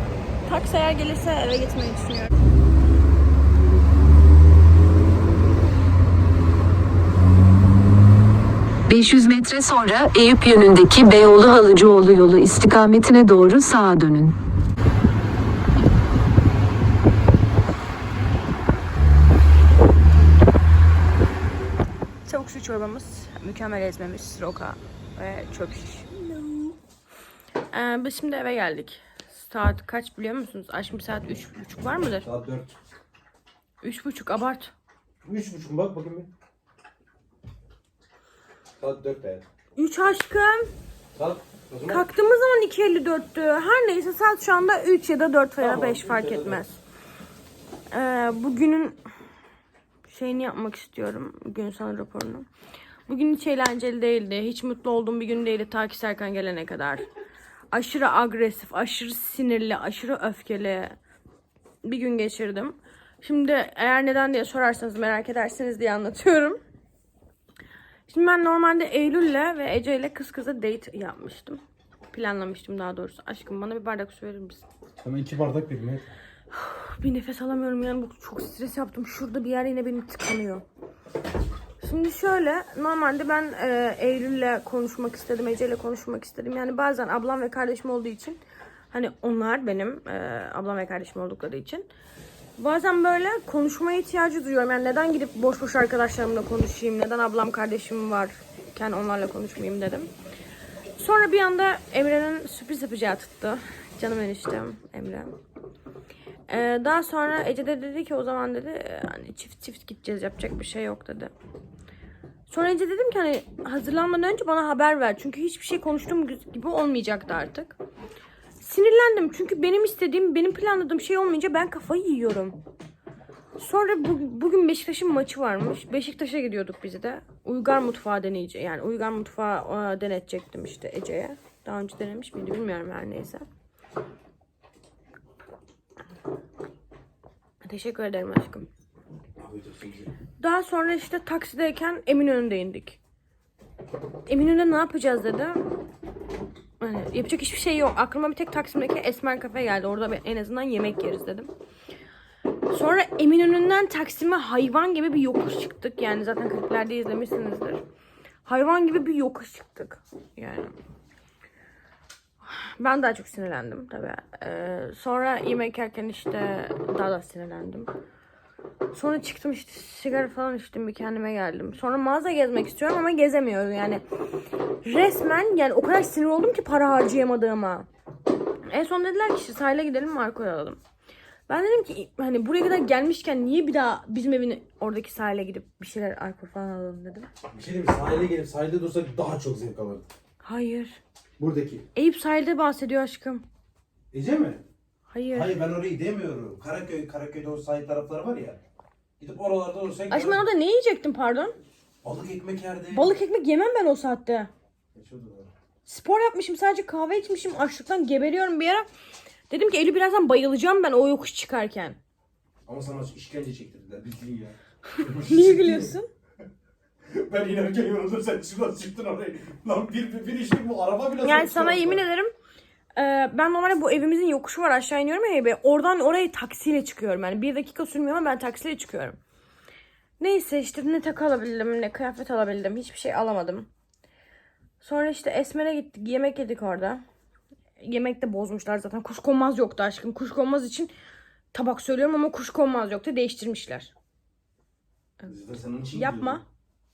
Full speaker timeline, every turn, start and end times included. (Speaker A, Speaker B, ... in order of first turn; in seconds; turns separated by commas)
Speaker A: 0.5-2.3, Speaker B: 8.9-14.3, Speaker A: 22.3-26.8, Speaker A: 27.7-32.3, Speaker C: 32.2-32.8, Speaker A: 33.8-34.7, Speaker C: 35.2-36.3, Speaker C: 38.8-39.5, Speaker A: 39.8-40.7, Speaker C: 41.2-42.0, Speaker A: 41.9-46.7, Speaker C: 45.6-46.7, Speaker A: 47.9-49.0, Speaker A: 50.1-52.5, Speaker A: 53.1-57.1, Speaker A: 57.7-61.0, Speaker A: 61.8-66.6, Speaker A: 68.1-71.6, Speaker A: 72.1-74.6, Speaker C: 75.0-76.0, Speaker A: 76.5-80.6, Speaker A: 81.8-88.4, Speaker A: 88.9-91.9, Speaker A: 92.6-100.1, Speaker A: 101.0-105.3, Speaker A: 106.5-111.3, Speaker A: 112.5-117.8, Speaker A: 118.6-122.6, Speaker A: 123.6-133.4, Speaker A: 137.6-138.7, Speaker C: 139.4-140.1, Speaker A: 140.4-143.0, Speaker A: 144.3-145.7, Speaker A: 146.8-151.5, Speaker A: 152.7-157.8, Speaker A: 158.4-160.7, Speaker A: 162.4-167.9, Speaker A: 168.9-174.0, Speaker A: 174.8-177.9, Speaker A: 178.7-180.8, Speaker A: 181.5-187.3, Speaker C: 187.5-190.1, Speaker A: 190.4-191.0, Speaker C: 191.4-191.8, Speaker A: 191.9-193.4, Speaker C: 194.1-194.6, Speaker A: 195.1-195.5, Speaker C: 195.3-198.6, Speaker C: 199.2-200.4, Speaker A: 200.1-201.6, Speaker C: 202.0-203.1, Speaker A: 202.9-204.5, Speaker C: 204.9-205.5, Speaker A: 205.8-208.9, Speaker A: 209.5-212.0, Speaker C: 212.7-215.9, Speaker A: 215.0-216.1, Speaker C: 217.1-222.0, Speaker A: 221.2-222.3, Speaker A: 223.0-229.2, Speaker A: 230.2-233.7, Speaker A: 234.8-237.0, Speaker A: 237.8-240.9, Speaker A: 241.5-243.9, Speaker C: 245.2-246.4, Speaker A: 245.9-246.4